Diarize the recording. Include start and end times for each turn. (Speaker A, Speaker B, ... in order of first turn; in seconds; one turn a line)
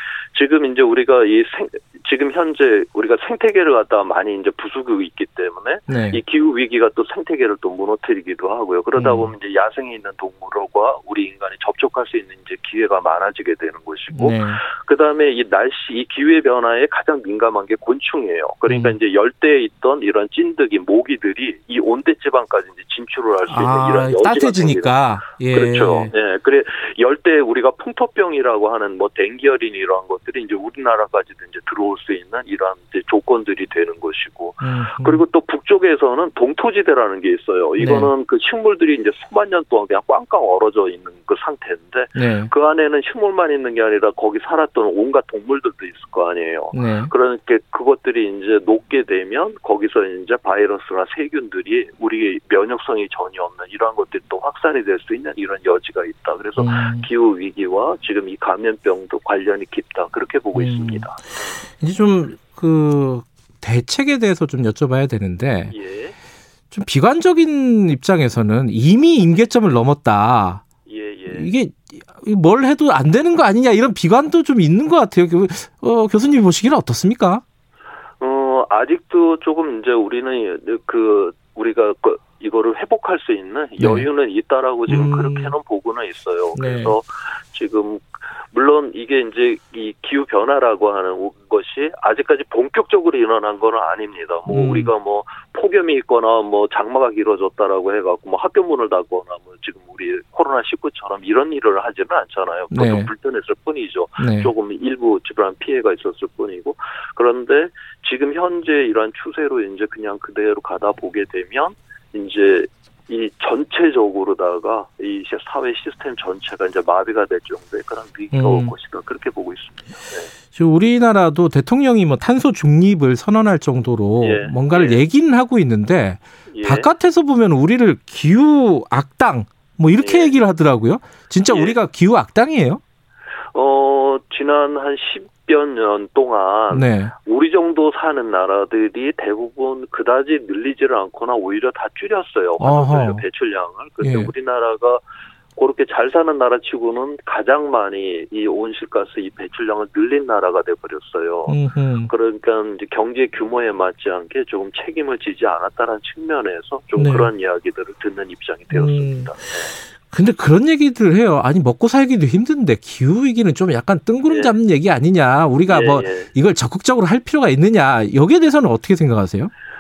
Speaker A: 0.3-25.0
Speaker B: 5.9-6.2
Speaker B: 8.9-9.3
Speaker B: 14.1-14.6
Speaker B: 18.7-19.0
Speaker B: 23.5-26.1
Speaker A: 25.5-61.5
Speaker B: 34.6-35.2
Speaker B: 37.8-38.1
Speaker B: 42.2-42.5
Speaker B: 46.7-47.1
Speaker B: 56.6-57.1
Speaker B: 60.5-61.1
Speaker B: 61.8-65.8
Speaker A: 65.7-66.2
Speaker B: 66.7-70.6
Speaker A: 70.9-71.5
Speaker B: 71.3-77.4
Speaker A: 78.2-120.3
Speaker B: 83.8-84.1
Speaker B: 84.9-85.5
Speaker B: 86.5-87.0
Speaker B: 94.5-94.9
Speaker B: 102.7-103.1
Speaker B: 104.2-104.5
Speaker B: 118.3-118.7
Speaker B: 120.5-132.8
Speaker A: 124.2-125.0
Speaker A: 126.5-126.9
Speaker A: 130.0-130.3
Speaker A: 131.5-131.8
Speaker A: 133.5-145.0
Speaker B: 136.7-137.1
Speaker B: 142.6-143.2
Speaker B: 144.0-144.3
Speaker A: 145.6-151.6
Speaker B: 151.5-152.1
Speaker A: 152.1-159.8
Speaker B: 157.0-157.3
Speaker B: 158.7-159.3
Speaker B: 160.1-169.5
Speaker A: 164.3-164.6
Speaker A: 165.7-166.3